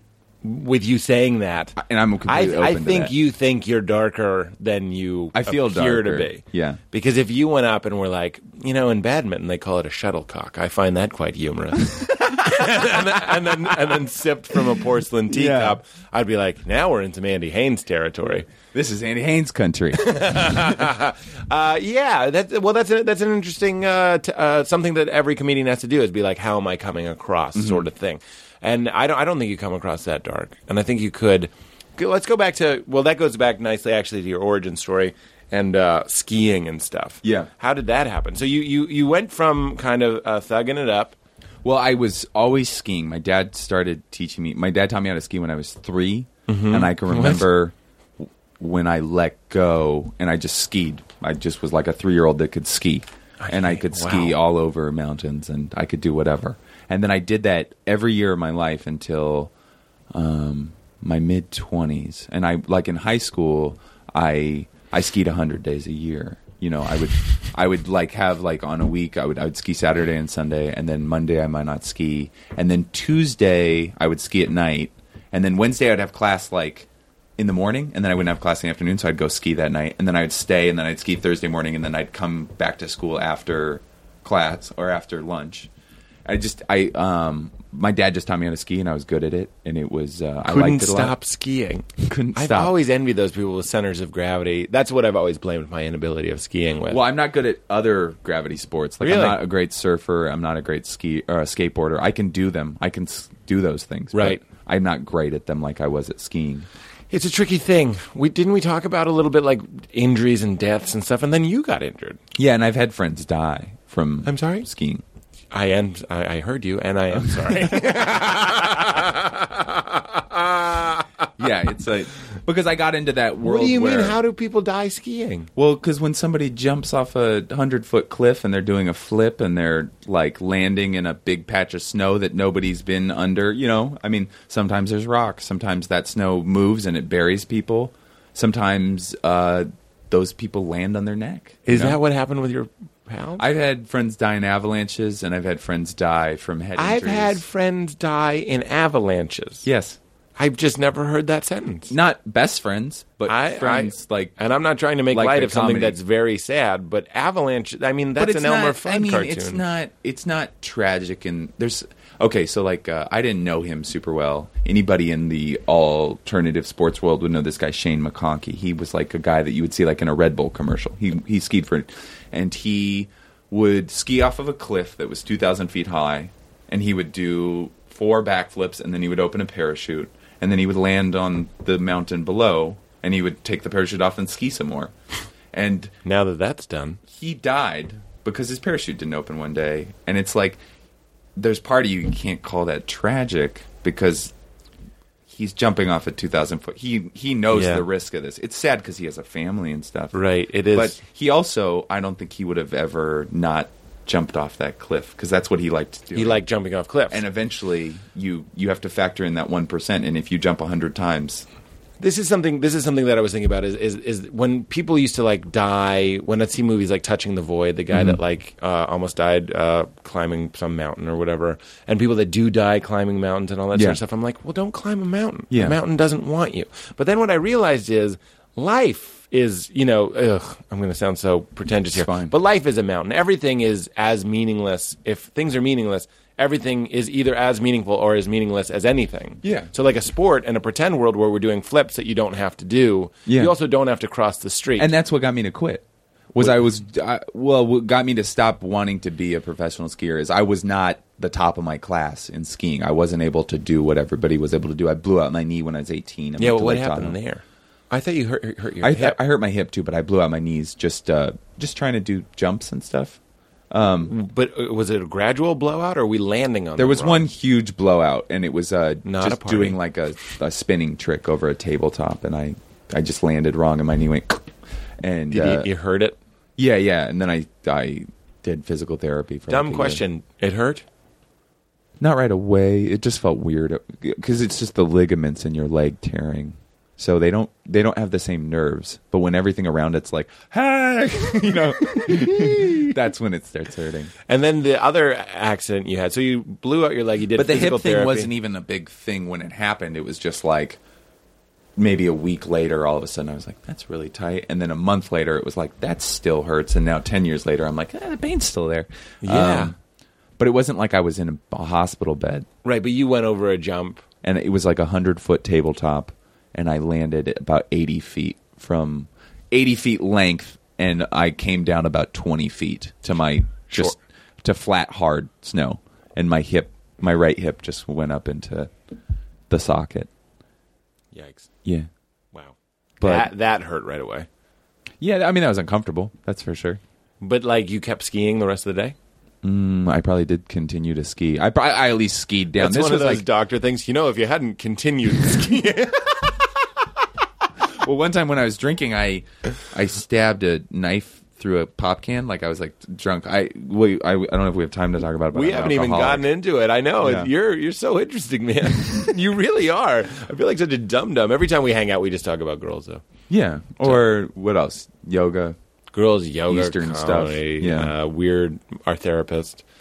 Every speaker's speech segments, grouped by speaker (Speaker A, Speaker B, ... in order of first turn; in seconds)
Speaker A: 0.4-18.5, 20.0-41.1, 46.5-47.5, 53.4-54.4, 90.4-97.0, 99.0-99.4, 104.1-104.4, 107.1-112.2, 114.2-114.7, 115.5-121.1, 123.4-125.5, 141.7-143.4, 146.8-149.7, 150.4-151.9, 153.3-159.6, 186.0-187.0, 197.5-197.8, 200.1-201.0, 206.1-207.2, 212.0-244.9, 256.4-259.2, 264.1-267.3, 269.0-269.8, 275.3-276.2, 279.5-280.8, 291.8-292.9, 294.3-298.3, 309.2-309.7, 312.6-314.0, 323.7-323.9, 331.1-331.5, 332.3-334.3, 337.2-338.9, 342.6-346.4, 355.3-363.0, 365.9-369.6
Speaker B: 1.8-3.1, 5.3-6.8, 12.4-13.1, 15.3-15.8, 18.7-20.8, 27.5-27.9, 37.2-37.5, 41.6-59.5, 60.1-85.7, 86.2-91.1, 92.0-92.8, 96.9-106.7, 112.3-115.0, 117.2-119.0, 121.4-124.2, 125.5-142.0, 143.4-147.4, 149.6-150.0, 151.9-154.3, 155.1-156.0, 158.2-184.9, 185.5-185.9, 187.1-190.6, 191.3-194.3, 195.3-200.2, 200.7-206.4, 207.1-211.4, 217.9-218.2, 223.7-224.0, 225.5-225.8, 231.9-232.3, 239.4-239.7, 243.2-243.5, 244.8-257.1, 258.8-263.2, 263.7-264.1, 266.8-274.5, 275.0-275.7, 276.6-280.0, 282.0-294.1, 297.4-300.8, 301.8-309.7, 310.4-312.5, 314.2-328.7, 329.5-330.1, 333.0-333.3, 335.0-336.8, 339.4-343.2, 347.8-356.3, 357.0-357.3, 363.3-365.6, 366.5-367.9